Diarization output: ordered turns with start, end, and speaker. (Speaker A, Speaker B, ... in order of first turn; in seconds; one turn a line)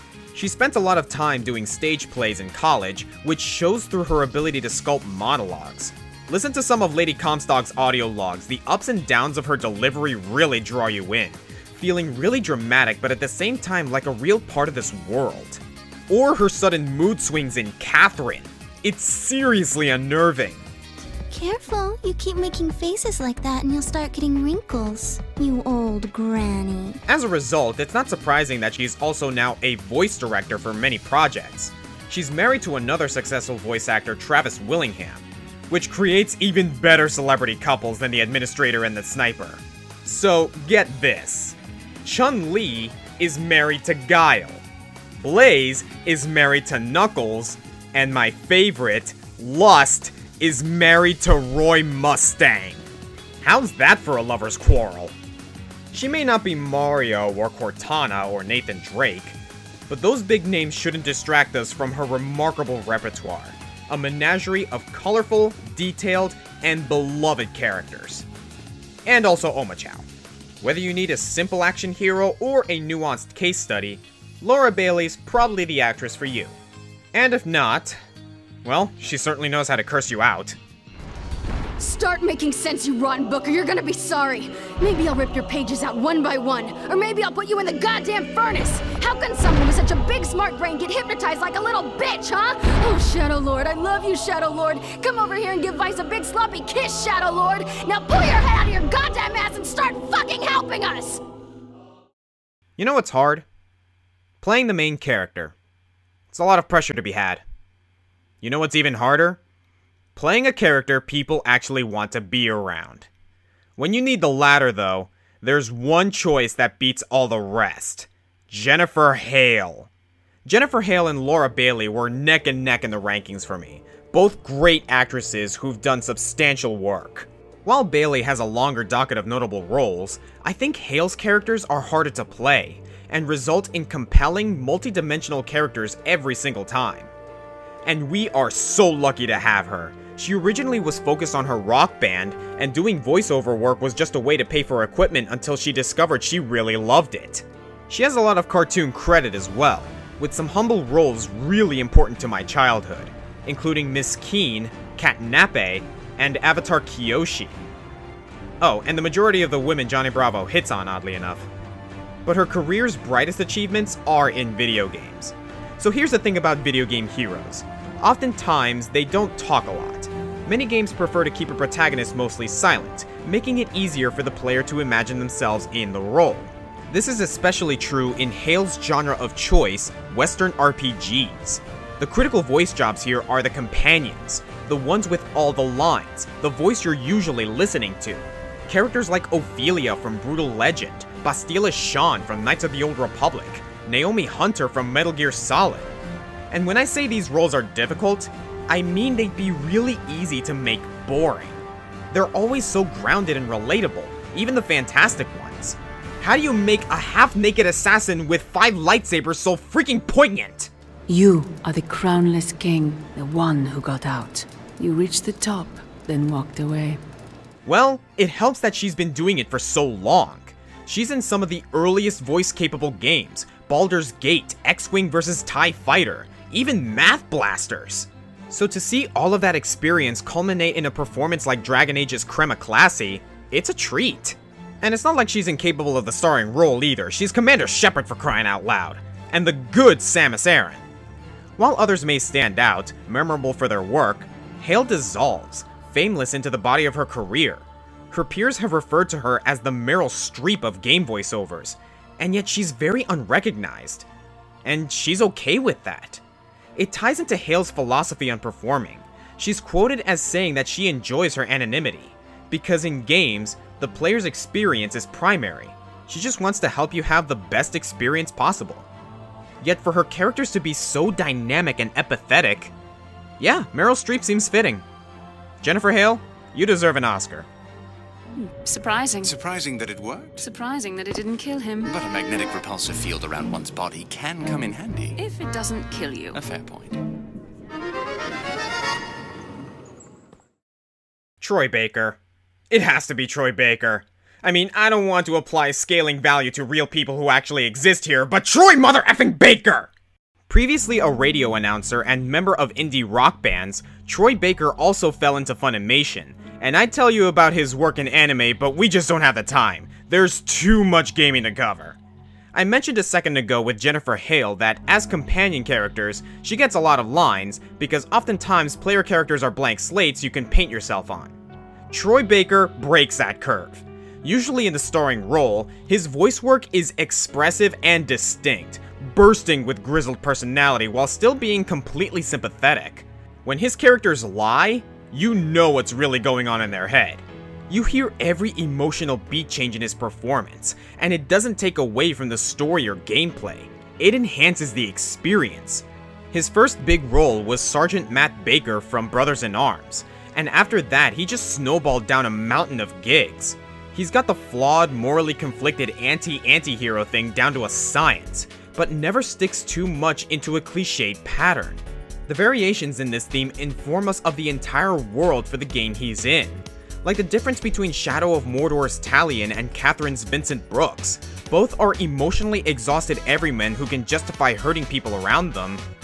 Speaker A: 0.3-20.6
Speaker B: 21.3-27.0
Speaker A: 27.1-44.6
Speaker A: 45.2-52.9
Speaker A: 53.4-55.1
Speaker A: 55.9-59.4
Speaker A: 59.9-68.2
Speaker A: 69.0-70.0
Speaker A: 70.6-76.5
Speaker A: 77.1-78.0
Speaker A: 78.6-80.6
Speaker C: 81.8-101.2
Speaker A: 102.8-103.4
Speaker A: 104.4-105.5
Speaker A: 106.3-107.4
Speaker A: 108.4-109.4
Speaker A: 110.2-113.1
Speaker A: 113.8-119.9
Speaker A: 120.4-137.1
Speaker A: 137.8-157.6
Speaker A: 158.6-161.5
Speaker A: 162.2-195.9
Speaker A: 196.5-201.6
Speaker A: 202.1-210.7
Speaker D: 211.1-217.0
Speaker A: 217.7-240.8
Speaker A: 241.6-254.1
Speaker A: 254.6-256.2
Speaker A: 256.8-268.9
Speaker A: 269.6-272.7
Speaker A: 273.4-274.8
Speaker A: 275.6-277.5
Speaker E: 278.4-279.3
Speaker F: 279.2-280.5
Speaker E: 280.4-281.9
Speaker F: 281.8-285.1
Speaker E: 285.1-286.4
Speaker F: 286.3-287.0
Speaker A: 291.4-292.2
Speaker A: 292.7-299.9
Speaker A: 300.5-312.0
Speaker A: 312.5-321.4
Speaker A: 321.9-375.8